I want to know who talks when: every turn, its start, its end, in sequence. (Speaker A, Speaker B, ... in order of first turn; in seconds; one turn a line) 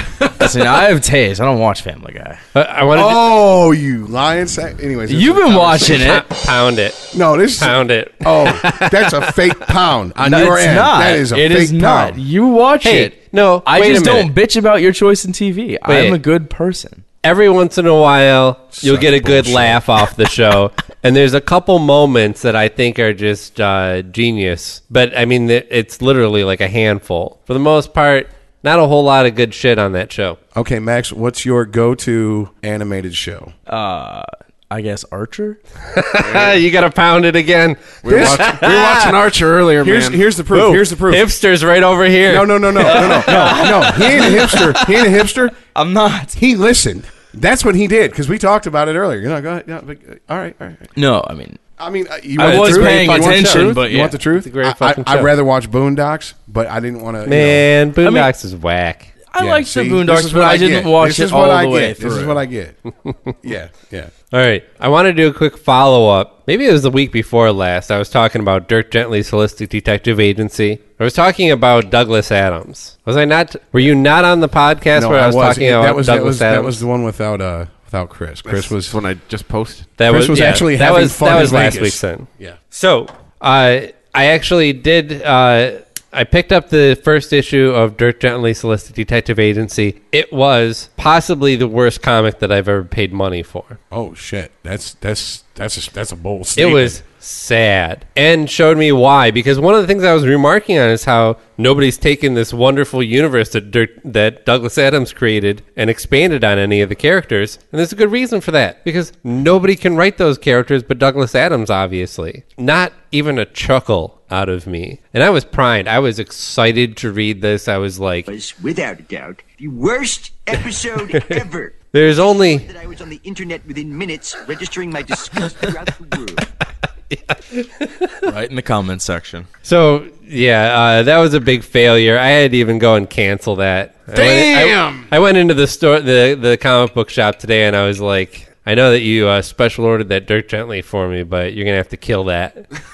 Speaker A: 0.4-2.4
Speaker B: 2.5-3.4
Speaker C: 2.9-6.1
Speaker A: 5.1-6.3
Speaker B: 5.9-9.4
Speaker C: 7.1-12.2
Speaker A: 10.2-17.0
Speaker B: 12.8-14.3
Speaker B: 15.9-16.2
Speaker B: 17.2-30.4
Speaker C: 18.7-19.8
Speaker C: 30.6-33.5
Speaker A: 33.7-35.6
Speaker B: 35.9-39.1
Speaker D: 36.2-36.6
Speaker D: 38.0-40.2
Speaker C: 38.0-39.1
Speaker C: 39.8-41.3
Speaker B: 40.5-43.9
Speaker C: 42.3-45.6
Speaker A: 42.8-44.8
Speaker A: 45.6-46.4
Speaker C: 46.4-50.9
Speaker A: 51.0-51.6
Speaker C: 51.8-57.7
Speaker A: 52.4-54.2
Speaker B: 52.4-53.7
Speaker B: 54.4-55.3
Speaker B: 57.2-59.1
Speaker A: 58.0-58.3
Speaker A: 59.3-62.4
Speaker C: 59.4-62.8
Speaker B: 63.0-63.3
Speaker C: 63.4-64.1
Speaker B: 64.3-76.8
Speaker C: 74.9-79.0
Speaker D: 78.5-79.9
Speaker B: 80.0-93.8
Speaker C: 80.1-82.6
Speaker C: 93.9-97.0
Speaker B: 96.6-118.3
Speaker E: 118.3-126.5
Speaker B: 121.9-122.7
Speaker B: 127.1-128.1
Speaker A: 128.2-129.5
Speaker B: 129.6-142.7
Speaker D: 134.1-135.1